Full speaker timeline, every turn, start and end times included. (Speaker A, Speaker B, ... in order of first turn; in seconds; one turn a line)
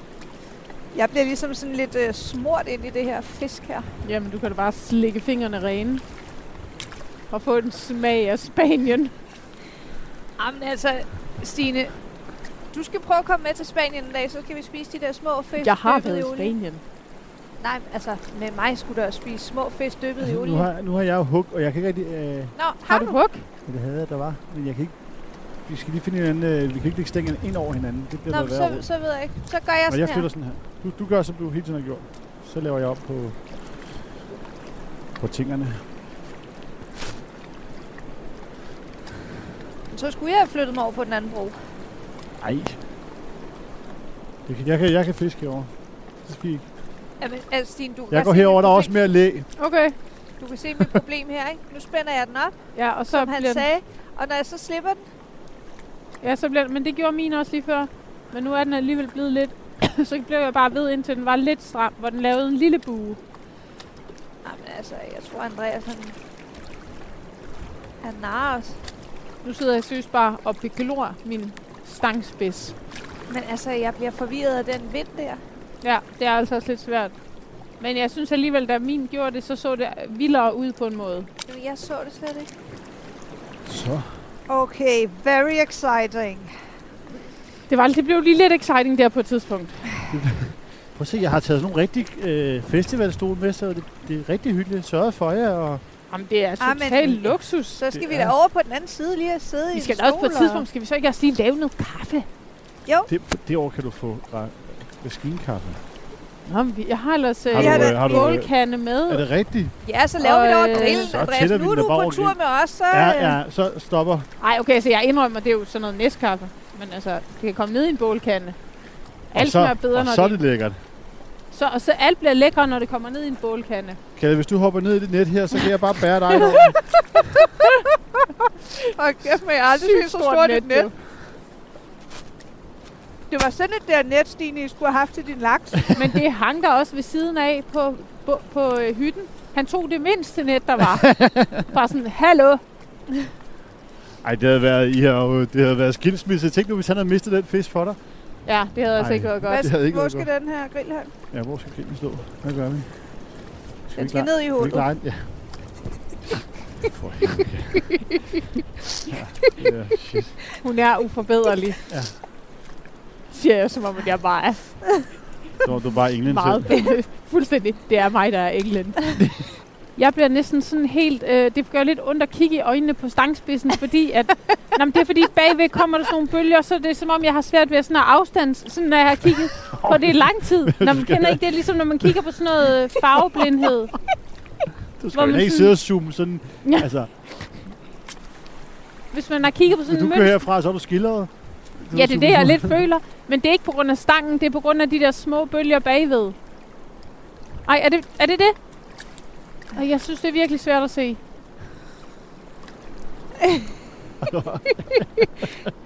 Speaker A: 0.9-3.9
Speaker B: 4.0-6.0
Speaker B: 7.3-9.1
Speaker A: 10.4-11.9
Speaker A: 12.7-16.6
Speaker B: 15.6-16.8
Speaker A: 17.6-20.7
Speaker C: 20.2-22.5
Speaker A: 22.6-23.2
Speaker B: 22.9-23.5
Speaker C: 23.6-25.0
Speaker C: 25.6-28.9
Speaker A: 28.3-30.3
Speaker C: 29.9-33.4
Speaker C: 35.2-35.8
Speaker A: 39.9-41.6
Speaker C: 42.4-42.8
Speaker C: 44.5-45.7
Speaker C: 46.2-46.7
Speaker A: 47.2-48.9
Speaker C: 48.1-49.5
Speaker B: 49.6-50.0
Speaker A: 50.4-55.0
Speaker B: 52.8-53.6
Speaker B: 56.2-63.2
Speaker A: 64.4-66.2
Speaker A: 68.0-68.8
Speaker B: 69.4-72.8
Speaker A: 73.3-75.4
Speaker B: 75.8-77.2
Speaker B: 77.8-81.3
Speaker A: 81.5-82.5
Speaker C: 83.7-84.2
Speaker A: 84.5-86.5
Speaker B: 87.7-89.9
Speaker C: 90.1-95.8
Speaker B: 96.1-97.8
Speaker A: 96.6-100.7
Speaker C: 97.9-98.3
Speaker B: 99.7-102.3
Speaker C: 103.1-105.8
Speaker B: 106.5-109.2
Speaker C: 107.5-109.7
Speaker A: 107.5-108.3
Speaker A: 109.8-113.4
Speaker B: 110.2-111.2
Speaker C: 110.7-112.4
Speaker C: 112.9-114.3
Speaker B: 114.4-118.6
Speaker B: 119.3-120.4
Speaker C: 119.3-120.8
Speaker B: 121.5-124.0
Speaker C: 124.2-126.8
Speaker B: 126.3-126.6
Speaker A: 128.9-130.9
Speaker B: 129.7-130.9
Speaker A: 133.3-136.0
Speaker B: 135.9-142.6
Speaker C: 141.0-141.7
Speaker C: 144.2-148.0
Speaker B: 148.5-149.7
Speaker C: 148.9-150.3
Speaker A: 149.5-151.1
Speaker C: 151.3-155.4
Speaker A: 154.0-154.9
Speaker C: 156.8-158.1
Speaker C: 159.1-160.4
Speaker B: 160.6-161.8
Speaker C: 161.9-162.1
Speaker B: 163.3-165.2
Speaker C: 165.6-166.7
Speaker B: 166.2-169.2
Speaker B: 170.0-183.9
Speaker C: 179.7-181.4
Speaker C: 185.0-187.7
Speaker B: 185.1-185.7
Speaker B: 189.1-190.4
Speaker C: 189.8-192.8
Speaker B: 191.9-196.4
Speaker B: 197.7-198.6
Speaker B: 199.7-201.2
Speaker A: 203.4-203.7
Speaker C: 204.2-205.7